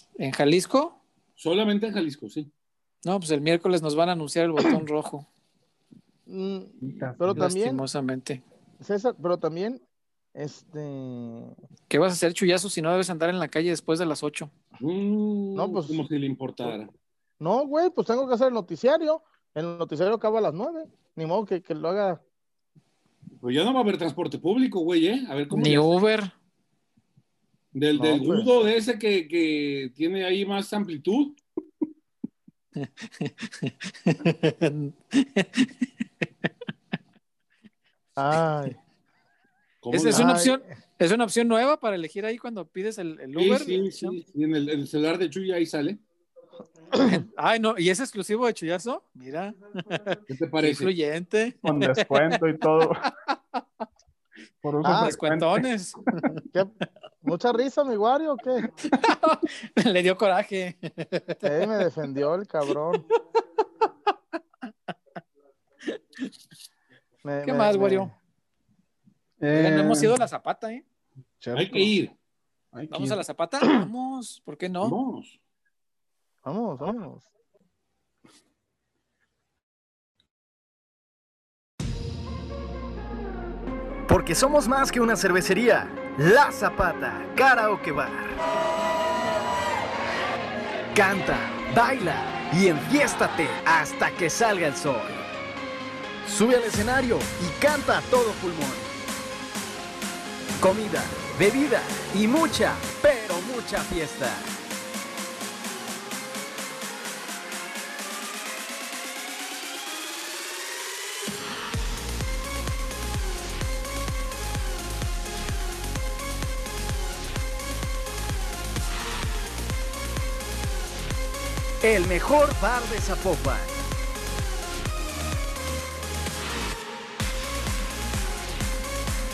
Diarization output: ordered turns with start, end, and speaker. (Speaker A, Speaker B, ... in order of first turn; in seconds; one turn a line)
Speaker A: 0.2-1.0
Speaker B: 1.4-2.5
Speaker A: 3.0-5.2
Speaker C: 6.3-7.8
Speaker D: 6.8-7.5
Speaker A: 7.3-8.4
Speaker C: 8.8-9.8
Speaker C: 10.3-11.5
Speaker A: 11.9-14.5
Speaker B: 14.8-16.9
Speaker C: 15.6-16.0
Speaker C: 17.4-22.2
Speaker B: 23.4-25.9
Speaker A: 25.5-26.3
Speaker B: 27.7-31.4
Speaker C: 27.9-28.5
Speaker A: 32.8-35.7
Speaker C: 38.2-38.8
Speaker B: 39.8-40.4
Speaker A: 39.9-44.2
Speaker C: 40.1-40.6
Speaker B: 43.4-46.0
Speaker C: 46.9-47.2
Speaker A: 47.0-52.4
Speaker B: 50.3-50.9
Speaker D: 51.6-53.0
Speaker A: 53.0-53.6
Speaker D: 54.6-55.6
Speaker C: 54.8-55.1
Speaker A: 54.9-56.4
Speaker C: 56.5-58.7
Speaker A: 58.8-61.8
Speaker C: 61.4-63.0
Speaker A: 65.9-66.3
Speaker C: 67.2-68.1
Speaker A: 67.4-68.1
Speaker D: 69.4-70.2
Speaker A: 69.5-70.8
Speaker D: 71.4-72.0
Speaker B: 71.5-72.1
Speaker D: 72.7-73.2
Speaker A: 72.9-75.0
Speaker B: 74.8-75.4
Speaker C: 76.4-77.3
Speaker E: 84.1-88.4
Speaker E: 90.9-95.2
Speaker E: 96.2-98.9
Speaker E: 100.6-104.5
Speaker E: 121.8-123.8